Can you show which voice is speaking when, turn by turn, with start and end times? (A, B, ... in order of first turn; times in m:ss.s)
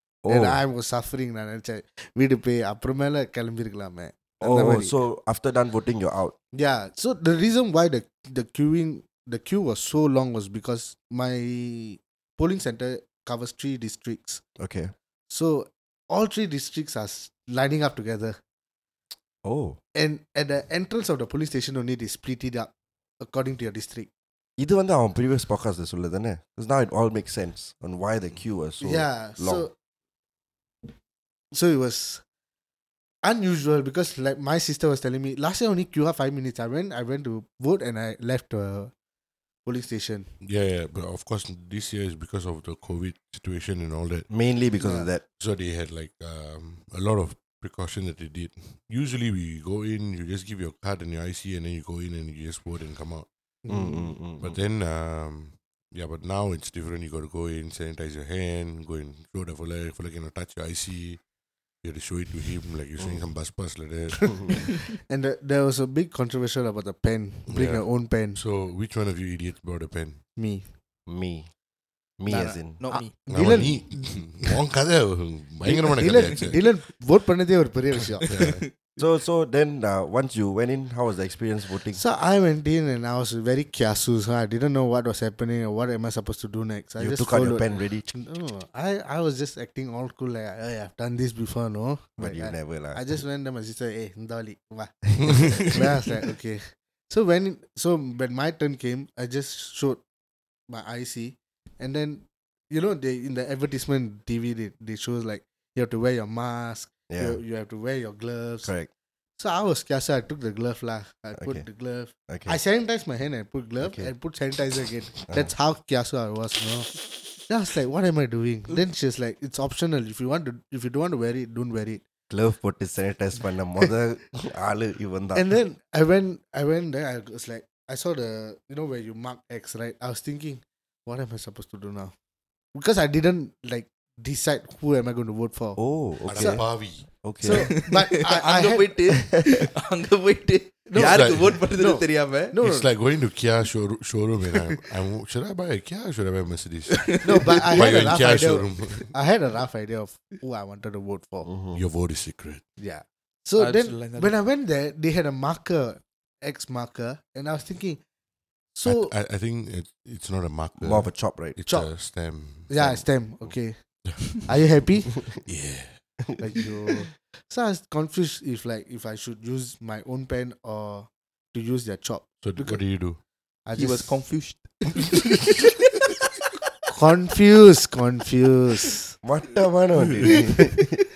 0:00.2-0:00.6 A
0:00.3-0:05.0 B
0:04.4-0:06.4 A
0:06.5-0:14.4 B
0:14.6-0:14.9 A
0:15.3-0:18.4 B
0:19.4-0:19.8 A
0:20.0-0:24.1 B
0:24.6-0:29.7 A
0:28.8-0:29.7 B
0:31.5-0:32.2 B
0:33.2-0:38.9 B
0:39.6-0:40.3 B
0:40.4-0:44.3 C
0:44.3-0:45.2 A
0:44.8-0:45.1 B
0:45.4-0:53.3 C
0:53.6-0:54.2 B
0:53.7-0:54.6 A
0:54.4-1:01.2 C
1:01.8-1:04.7 C
1:03.0-1:03.3 A
1:04.5-1:08.4 B
1:07.5-1:10.2 C
1:10.4-1:10.7 B
1:11.1-1:11.5 A
1:12.2-1:12.8 A
1:12.3-1:13.2 D
1:12.3-1:14.5 B
1:13.3-1:16.6 C
1:15.6-1:18.3 B
1:18.2-1:18.6 C
1:18.3-1:18.7 D
1:19.0-1:22.0 A
1:22.0-1:40.0 B
1:27.0-1:28.1 A
1:32.2-1:33.2 A
1:35.3-1:35.6 A
1:40.7-1:48.7 B
1:47.1-1:47.4 A
1:48.6-1:48.9 A
1:49.4-2:02.0 B
1:51.4-1:51.7 A
1:52.3-1:52.6 A
1:53.8-1:54.1 A
1:55.3-1:55.5 A
2:02.3-2:05.5 A
2:05.3-2:12.1 B
2:12.8-2:16.7 B
2:15.8-2:17.8 A
2:16.3-2:17.1 C
2:17.4-2:19.0 B
2:17.5-2:22.5 D
2:20.9-2:22.9 B
2:21.0-2:21.6 C
2:22.6-2:29.1 C
2:27.2-2:31.5 B
2:31.4-2:31.8 A
2:31.7-2:32.6 C
2:32.8-2:38.0 B
2:33.6-2:34.3 D
2:38.7-2:39.1 B
2:38.8-2:42.8 C
2:40.8-2:41.6 A
2:41.6-2:42.0 B
2:42.6-2:45.2 B
2:42.8-2:43.6 A
2:45.4-2:46.0 C
2:46.4-2:52.9 B
2:52.4-2:53.2 C
2:53.7-2:54.2 B
2:53.8-2:55.7 D
2:56.9-2:59.2 B
2:59.2-3:01.0 A